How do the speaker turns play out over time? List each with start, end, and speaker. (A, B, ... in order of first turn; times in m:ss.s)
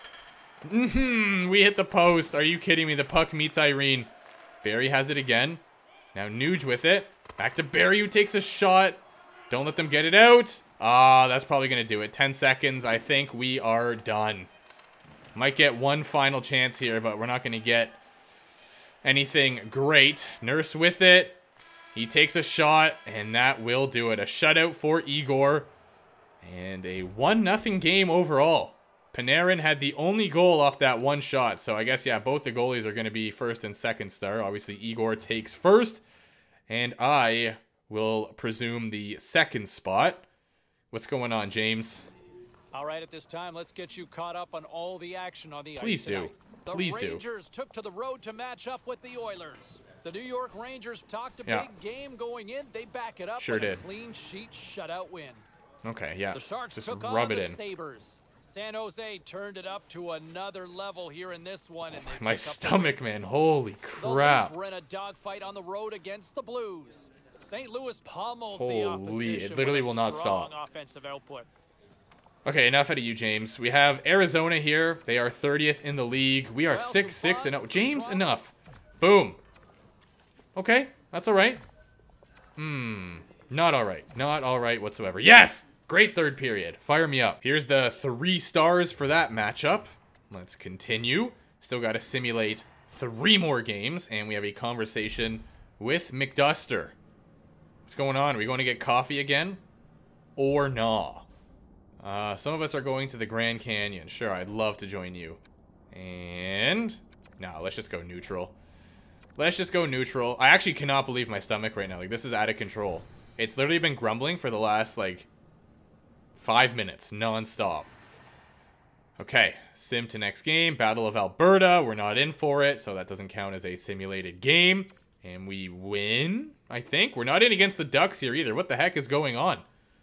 0:00.6-0:04.1 A
0:04.6-0:05.6 A
0:06.1-0:14.5 A
0:15.4-0:18.0 A
0:19.0-0:21.4 A
0:21.9-0:25.7 A
0:26.4-0:36.0 A
0:36.7-0:40.3 A
0:40.9-0:42.0 A
0:42.7-0:55.5 B
0:45.8-0:47.2 A
0:51.4-0:51.7 A
0:53.4-0:53.8 A
0:55.8-0:57.6 A
0:56.3-1:03.0 B
1:01.9-1:04.5 A
1:04.0-1:11.5 B
1:08.6-1:10.5 A
1:12.4-1:19.4 A
1:16.7-1:18.4 B
1:20.6-1:21.6 A
1:22.6-1:37.0 A
1:37.9-1:39.6 A
1:40.4-1:41.3 A
1:42.0-1:45.4 A
1:45.9-1:48.6 A
1:49.4-1:55.3 A
1:56.4-1:57.9 A
1:59.2-2:09.6 A